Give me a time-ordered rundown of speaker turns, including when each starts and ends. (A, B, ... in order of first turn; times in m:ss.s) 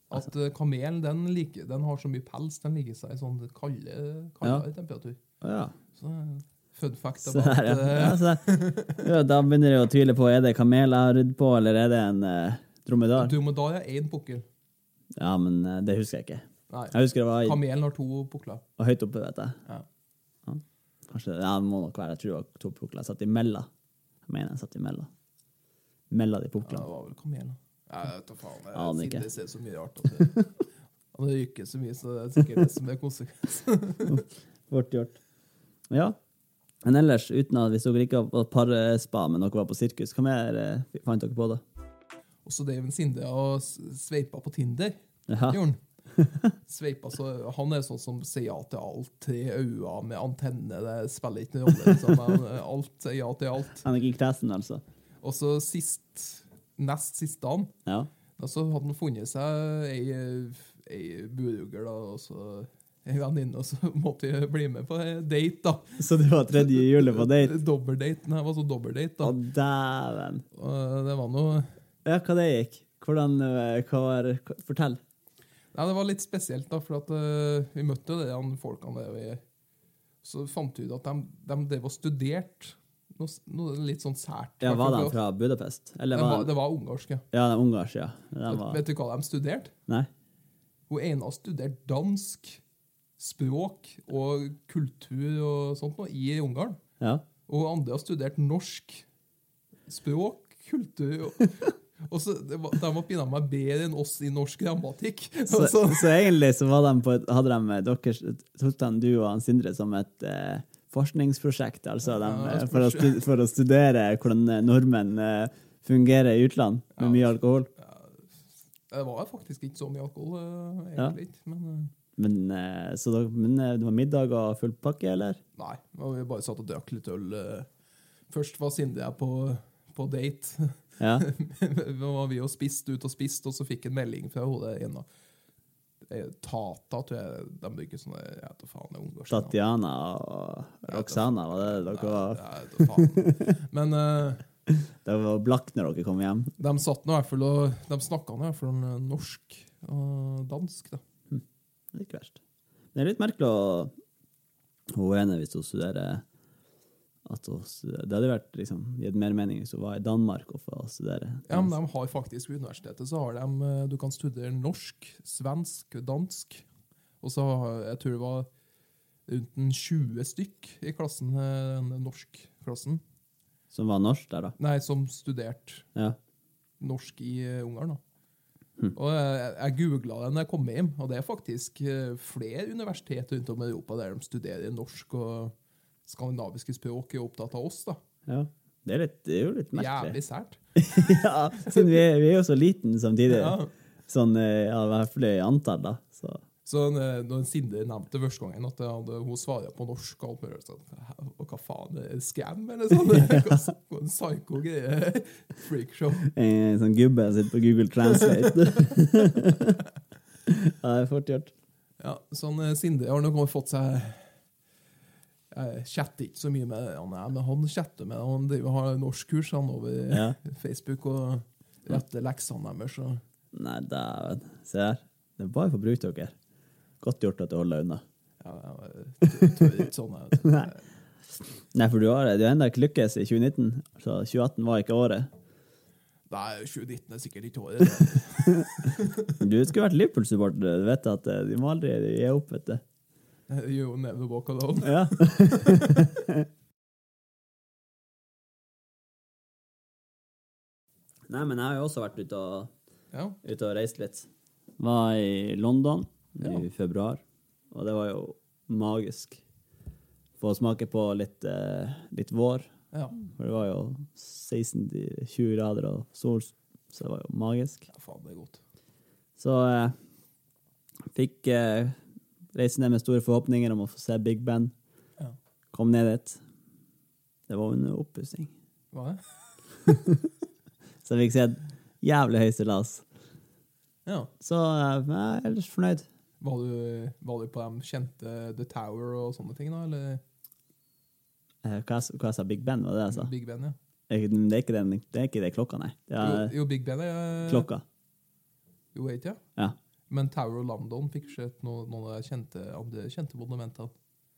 0:00.1-0:05.2 A
0:05.4-0:05.8 B
0:05.9-0:09.1 A
0:07.2-0:13.3 B
0:13.2-0:14.4 A
0:15.2-0:17.6 B
0:16.7-0:18.6 A
0:18.8-0:19.6 B
0:20.5-0:23.7 B
0:24.3-0:25.1 B
0:26.1-0:26.8 B
0:26.6-0:30.5 A
0:28.7-0:29.3 B
0:31.1-0:34.2 A
0:34.1-0:35.2 B
0:35.9-0:36.2 B
0:36.8-0:41.6 B
0:42.4-0:45.0 A
0:45.3-0:45.6 B
0:45.5-0:45.8 A
0:46.2-0:46.5 B
0:46.6-0:53.9 A
0:53.8-0:54.8 B
0:55.2-0:57.7 A
0:58.4-1:09.4 A
1:06.0-1:07.6 B
1:09.2-1:10.4 B
1:10.5-1:11.7 A
1:12.0-1:15.0 B
1:15.7-1:19.4 A
1:20.2-1:25.2 A
1:24.6-1:26.5 B
1:26.1-1:27.3 A
1:27.3-1:28.8 B
1:28.5-1:29.7 A
1:30.9-1:32.6 A
1:33.2-1:36.8 A
1:37.5-1:39.1 A
1:39.9-1:46.2 A
1:45.5-1:57.7 B
1:52.1-1:53.2 A
1:57.0-1:58.3 A
1:58.9-2:01.9 A
2:02.2-2:05.4 B
2:05.6-2:07.7 A
2:08.3-2:15.1 A
2:11.0-2:11.3 B
2:16.0-2:19.6 A
2:19.3-2:23.4 B
2:20.9-2:24.4 A
2:24.7-2:26.5 B
2:26.6-2:31.0 A
2:31.3-2:32.4 B
2:32.9-2:33.9 B
2:34.9-2:36.2 B
2:37.3-2:41.7 B
2:41.5-2:46.6 A
2:47.2-2:48.5 A
2:49.3-2:53.0 A
2:53.7-2:54.6 B
2:54.6-2:55.9 A
2:56.8-2:58.0 A
2:58.9-3:05.5 A
3:06.0-3:08.0 A
3:08.3-3:10.2 B
3:09.7-3:10.6 A
3:10.8-3:16.4 B
3:11.6-3:12.0 A
3:13.3-3:13.7 A
3:16.6-3:26.3 A
3:26.3-3:29.8 B
3:30.4-3:31.5 B
3:32.0-3:34.3 A
3:35.5-3:43.2 A
3:40.1-3:40.4 B
3:43.5-3:46.4 B
3:47.0-3:48.0 B
3:48.4-3:50.8 A
3:51.7-3:55.3 B
3:56.3-3:59.4 A
3:59.3-4:02.8 B
4:03.5-4:06.1 A
4:04.8-4:06.5 B
4:11.3-4:12.7 B
4:13.1-4:13.4 A
4:13.4-4:19.4 B
4:20.4-4:27.9 B
4:22.9-4:23.2 A
4:27.9-4:28.6 A
4:29.4-4:30.0 B
4:31.1-4:32.0 B
4:32.5-4:34.7 B
4:35.7-4:36.4 B
4:37.5-4:38.5 B
4:38.9-4:39.4 A
4:39.9-4:40.3 B
4:41.0-4:43.0 B
4:44.1-4:44.3 A
4:44.4-4:46.1 B
4:46.4-4:50.2 A
4:51.6-4:53.3 B
4:53.1-4:53.8 A
4:54.1-4:56.5 B
4:56.2-4:57.7 A
4:57.5-4:57.8 B
4:58.9-4:59.4 A
5:00.1-5:03.9 A